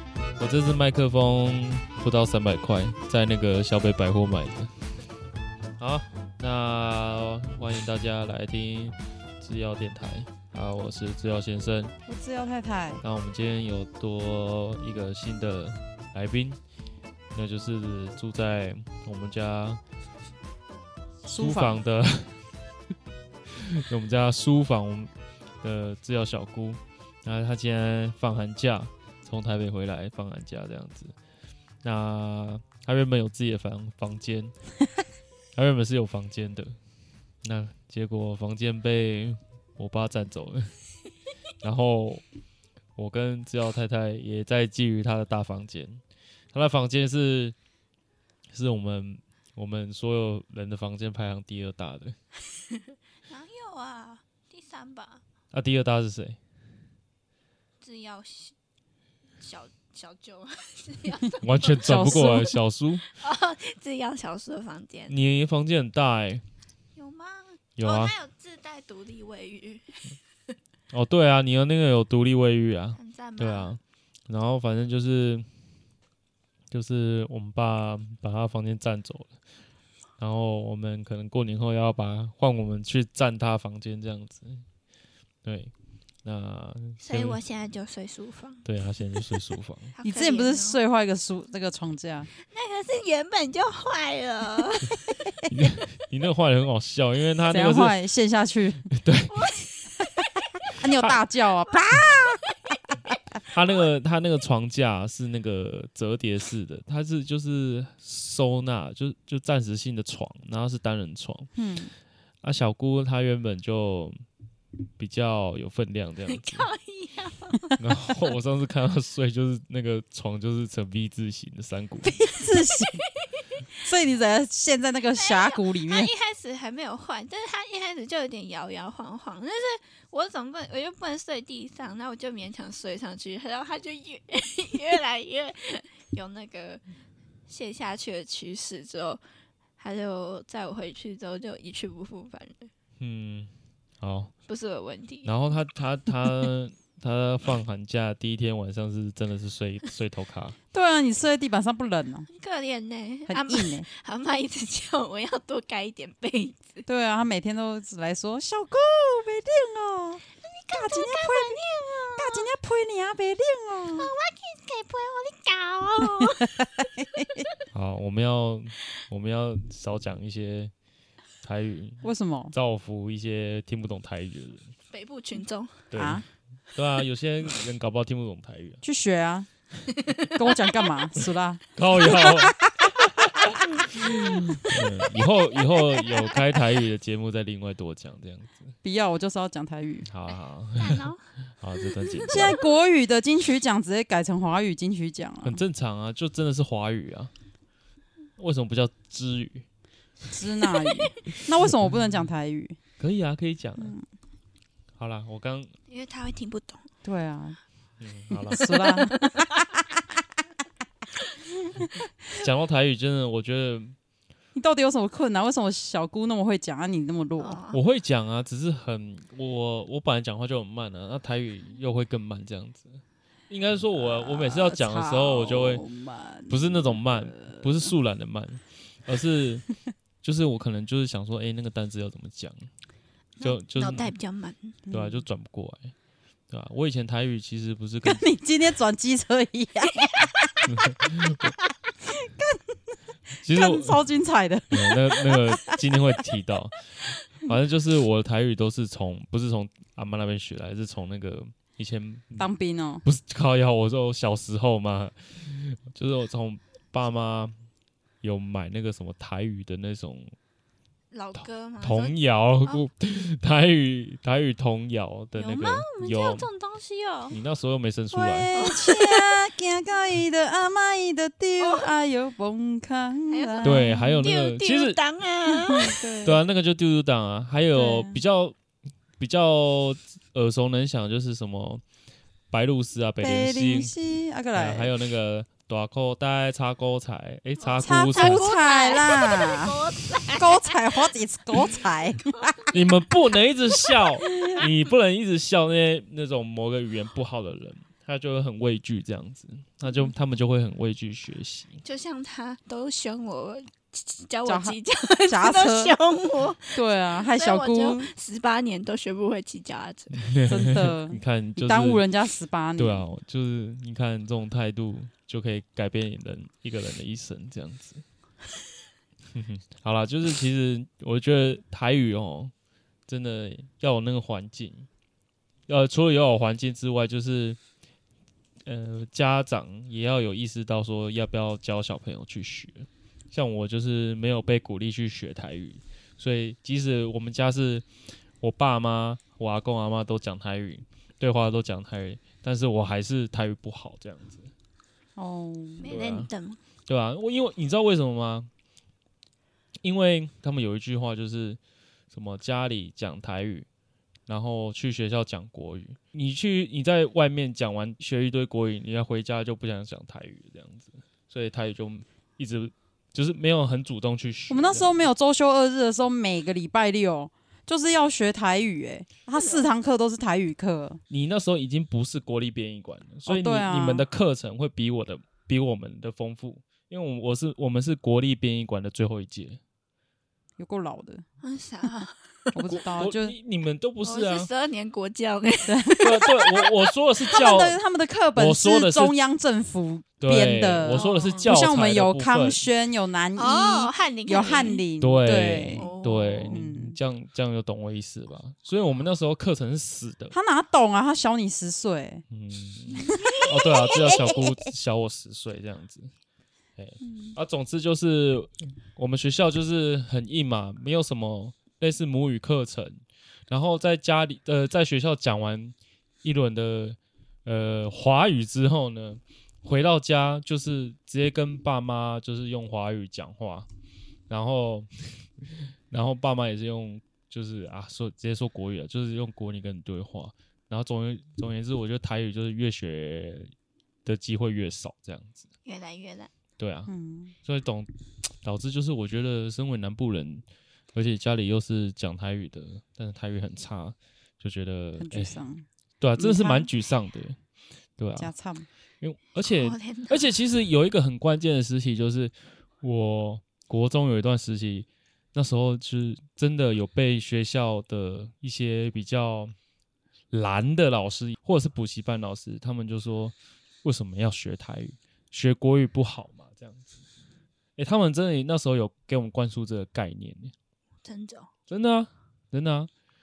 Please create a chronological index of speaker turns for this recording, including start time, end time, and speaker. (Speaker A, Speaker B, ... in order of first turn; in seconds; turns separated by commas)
Speaker A: 0.4-4.7, Speaker A: 5.8-11.9, Speaker B: 12.1-13.0, Speaker A: 13.0-16.6, Speaker A: 17.3-19.8, Speaker A: 21.3-22.3, Speaker B: 21.3-21.8, Speaker A: 23.5-31.1, Speaker A: 31.8-34.5, Speaker A: 35.5-36.8, Speaker A: 37.4-40.7, Speaker A: 41.6-42.2, Speaker A: 43.0-46.0, Speaker A: 46.5-47.6, Speaker A: 48.5-52.2, Speaker C: 52.7-55.2, Speaker A: 55.5-56.4, Speaker C: 57.8-58.5, Speaker C: 59.4-62.5, Speaker A: 61.4-63.0, Speaker B: 61.8-62.5, Speaker C: 63.1-65.1, Speaker A: 65.1-66.4, Speaker C: 67.0-70.2, Speaker A: 67.8-68.2, Speaker A: 70.9-75.5, Speaker C: 73.0-73.7, Speaker A: 76.7-79.3, Speaker A: 80.2-84.6, Speaker A: 85.4-85.7, Speaker A: 86.2-87.4, Speaker C: 87.0-88.6, Speaker A: 88.7-89.9, Speaker C: 89.9-90.8, Speaker B: 90.0-92.3, Speaker C: 92.5-95.0, Speaker A: 95.5-98.0, Speaker B: 97.5-98.9, Speaker A: 98.9-99.5, Speaker C: 99.3-100.0, Speaker B: 100.8-102.5, Speaker A: 103.5-111.5, Speaker B: 111.6-111.9, Speaker A: 112.4-114.2, Speaker A: 115.0-116.7, Speaker C: 116.3-117.8, Speaker A: 117.8-122.1, Speaker B: 122.2-123.0, Speaker C: 122.8-123.4, Speaker B: 123.8-126.1, Speaker C: 125.2-136.8, Speaker C: 137.5-139.2, Speaker C: 139.8-142.7, Speaker A: 143.0-144.3, Speaker C: 144.5-145.3, Speaker A: 145.2-150.6, Speaker B: 150.7-152.3, Speaker C: 152.3-156.8, Speaker B: 153.3-153.9, Speaker B: 156.9-161.6, Speaker C: 160.5-162.5, Speaker B: 162.2-164.1, Speaker C: 164.0-166.5, Speaker B: 166.2-167.5, Speaker A: 167.7-170.7, Speaker A: 171.4-174.7, Speaker B: 172.0-172.5, Speaker C: 174.9-175.8, Speaker A: 175.9-178.8, Speaker B: 176.0-176.2, Speaker B: 178.8-179.5, Speaker C: 179.9-180.2, Speaker B: 180.3-182.5, Speaker A: 181.8-188.7, Speaker B: 183.4-184.8, Speaker C: 185.6-186.6, Speaker B: 188.8-190.1, Speaker A: 190.1-191.1, Speaker C: 190.8-191.2, Speaker A: 191.6-192.6, Speaker C: 191.8-192.6, Speaker B: 192.3-195.6, Speaker A: 195.4-197.3, Speaker A: 198.4-199.7, Speaker B: 200.3-202.8, Speaker C: 200.7-201.1, Speaker A: 203.0-204.0, Speaker B: 203.8-204.0, Speaker A: 205.0-205.7, Speaker C: 205.9-206.8, Speaker B: 207.0-207.6, Speaker A: 208.0-208.9, Speaker B: 208.3-209.5, Speaker C: 208.7-209.4, Speaker A: 212.3-213.9, Speaker B: 214.6-217.6, Speaker C: 217.4-217.8, Speaker A: 217.7-225.8, Speaker B: 223.9-227.9, Speaker A: 226.5-229.7, Speaker A: 230.2-232.7, Speaker C: 233.4-234.8, Speaker A: 233.4-234.1, Speaker B: 234.9-235.2, Speaker A: 234.9-235.9, Speaker A: 236.5-238.2, Speaker B: 238.1-240.3, Speaker A: 240.7-241.6, Speaker B: 242.1-242.6, Speaker A: 243.4-244.0, Speaker B: 243.5-245.8, Speaker A: 244.7-252.5, Speaker B: 252.4-253.0, Speaker A: 253.0-257.6, Speaker A: 258.2-260.3, Speaker C: 261.1-262.8, Speaker A: 261.8-266.5, Speaker C: 265.4-267.4, Speaker A: 267.3-268.5, Speaker B: 268.1-274.2, Speaker C: 268.5-269.5, Speaker C: 271.6-271.9, Speaker C: 273.3-276.0, Speaker A: 273.6-275.0, Speaker B: 275.6-276.4, Speaker A: 276.2-278.6, Speaker B: 277.7-278.2, Speaker A: 279.2-281.8, Speaker A: 282.5-283.9, Speaker B: 283.2-284.9, Speaker A: 284.5-288.4, Speaker C: 287.6-290.7, Speaker B: 287.8-289.8, Speaker B: 290.3-292.7, Speaker A: 292.7-301.8, Speaker B: 294.2-294.6, Speaker C: 301.8-310.3, Speaker B: 304.5-304.8, Speaker B: 305.3-305.9, Speaker B: 306.7-308.1, Speaker A: 310.1-312.0, Speaker B: 310.5-313.0, Speaker A: 312.8-318.0, Speaker A: 319.3-322.5, Speaker A: 323.1-324.9, Speaker A: 325.7-327.6, Speaker A: 328.7-337.9, Speaker A: 338.4-344.5, Speaker B: 345.2-345.9, Speaker C: 345.8-346.6, Speaker A: 345.9-346.3, Speaker A: 346.9-348.5, Speaker A: 349.8-351.6, Speaker A: 352.1-353.7, Speaker A: 354.3-365.1, Speaker B: 364.5-371.0, Speaker C: 369.4-369.7, Speaker A: 371.1-379.6, Speaker B: 373.3-374.1, Speaker B: 380.6-381.2, Speaker C: 381.4-382.1, Speaker B: 382.5-383.4, Speaker A: 382.7-384.5, Speaker C: 384.0-386.9, Speaker B: 385.7-386.1, Speaker A: 386.0-387.8, Speaker B: 387.3-395.9, Speaker A: 388.4-389.1, Speaker A: 390.2-392.6, Speaker C: 391.0-391.5, Speaker C: 393.4-394.9, Speaker A: 395.0-400.4, Speaker C: 395.8-396.6, Speaker B: 396.5-397.0, Speaker B: 400.3-402.2, Speaker A: 402.3-406.1, Speaker B: 403.2-404.4, Speaker C: 404.0-404.4, Speaker A: 406.8-423.7, Speaker B: 407.0-407.3, Speaker A: 424.3-425.2, Speaker A: 425.9-433.5, Speaker A: 434.1-435.4, Speaker C: 435.6-436.3, Speaker A: 436.6-436.9, Speaker B: 436.9-437.4, Speaker A: 437.4-437.9, Speaker A: 438.4-445.3, Speaker B: 445.0-445.7, Speaker A: 446.0-447.4, Speaker B: 446.2-446.7, Speaker A: 448.0-448.3, Speaker B: 448.2-448.7, Speaker A: 449.0-459.5, Speaker C: 449.5-450.2, Speaker A: 460.3-467.0, Speaker A: 467.8-470.5, Speaker C: 471.0-471.5, Speaker A: 471.7-472.9